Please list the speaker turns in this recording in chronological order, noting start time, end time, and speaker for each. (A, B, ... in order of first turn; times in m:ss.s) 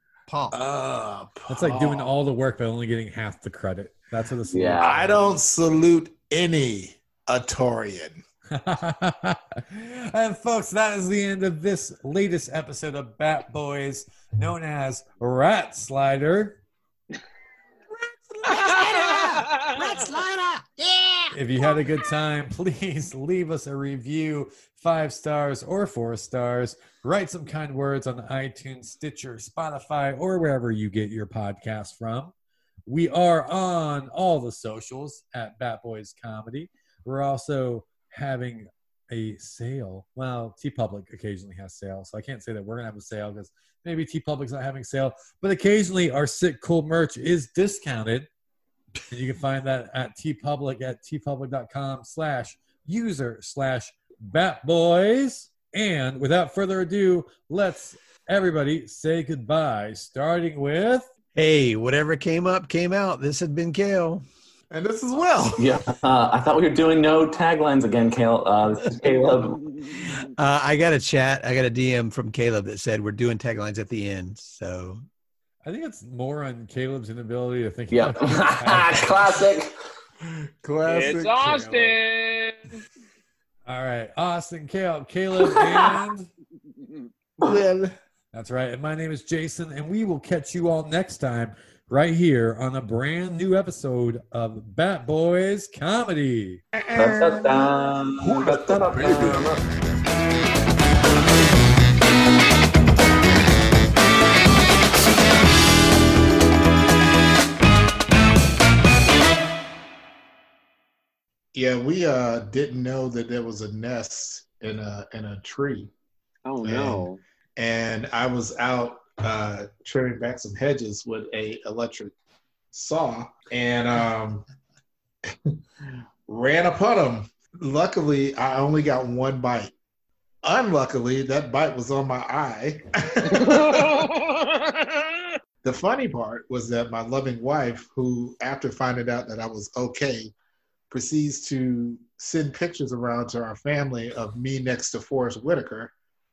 0:00.3-0:00.6 A
0:00.5-0:02.2 B
0:01.5-0:05.2 C
0:04.5-0:04.9 D
0:04.8-0:08.2 B
0:08.5-0:16.6 C
0:18.4-0:21.2 A
0:18.4-0:19.7 E
0:18.6-0:20.4 B
0:21.3-0:32.3 C
0:32.8-0:48.3 C
0:49.1-1:01.1 C
1:01.3-1:04.2 A
1:04.7-1:05.9 B
1:05.6-1:09.6 D
1:10.1-1:15.0 A
1:15.6-1:19.5 C
1:17.9-1:19.7 D
1:20.2-1:22.0 B
1:20.8-1:22.8 E
1:23.6-1:26.3 C
1:25.5-1:26.0 D
1:26.8-1:27.1 E
1:27.4-1:27.9 B
1:28.3-1:36.6 C
1:36.7-1:39.4 B
1:36.9-1:39.6 D
1:38.3-1:39.4 C
1:51.5-1:55.9 B
1:56.4-1:57.2 E
1:56.6-2:02.1 B
2:02.7-2:04.4 B
2:05.3-2:05.6 B
2:06.3-2:09.7 B
2:10.4-2:14.1 B
2:13.4-2:15.1 E
2:15.6-2:20.3 B
2:20.9-2:25.9 B